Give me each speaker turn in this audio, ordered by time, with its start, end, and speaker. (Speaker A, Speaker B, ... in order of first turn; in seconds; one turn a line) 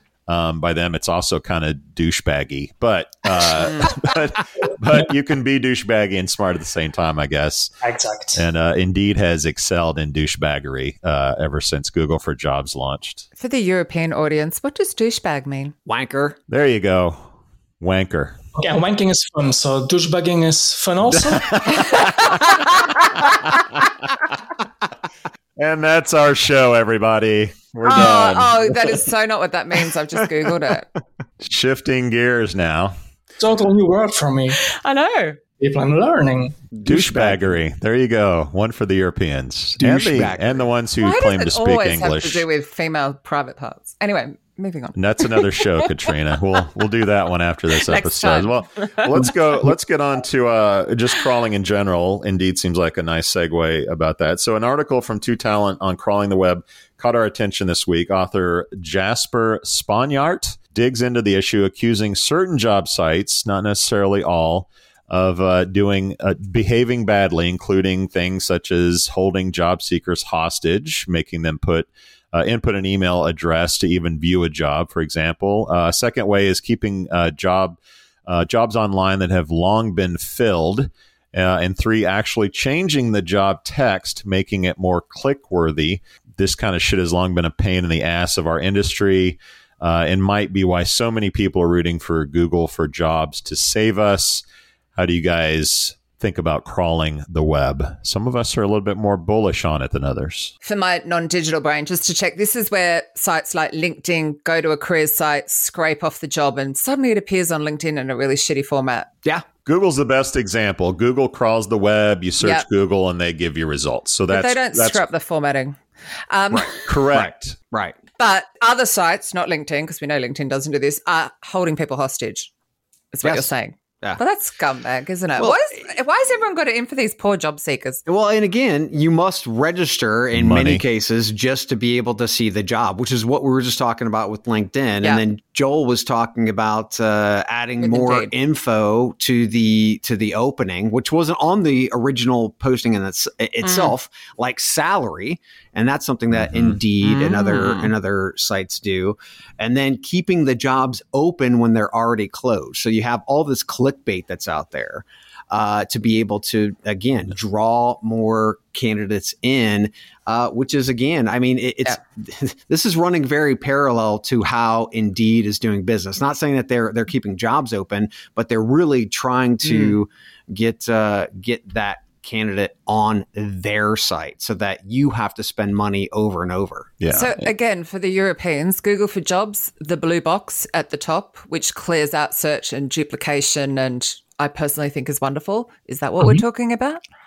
Speaker A: 0.3-7.7
Speaker B: 7.8-8.4
Speaker A: 8.3-13.3
Speaker C: 13.4-15.7
Speaker D: 15.9-16.4
Speaker A: 16.5-18.4
Speaker B: 18.6-21.6
Speaker A: 21.1-22.3
Speaker C: 22.0-22.9
Speaker A: 25.6-28.8
Speaker C: 27.9-30.9
Speaker A: 31.4-33.0
Speaker B: 33.4-34.6
Speaker C: 34.5-35.4
Speaker B: 35.6-36.6
Speaker D: 36.7-37.5
Speaker A: 36.9-42.5
Speaker D: 39.8-40.7
Speaker C: 41.0-45.6
Speaker A: 45.0-94.4
Speaker C: 47.9-49.4
Speaker A: 95.0-100.5
Speaker C: 100.6-109.1
Speaker A: 109.7-115.0
Speaker C: 112.4-112.7
Speaker C: 114.3-115.8
Speaker C: 116.3-116.8
Speaker D: 116.5-118.0
Speaker A: 116.9-117.6
Speaker C: 118.2-122.5
Speaker C: 123.1-128.0
Speaker D: 128.1-176.9
Speaker A: 130.3-130.9
Speaker C: 137.8-138.3
Speaker C: 143.6-143.9
Speaker A: 146.3-146.8
Speaker C: 147.0-147.9
Speaker C: 169.6-170.0
Speaker A: 177.0-177.5
Speaker C: 177.1-187.0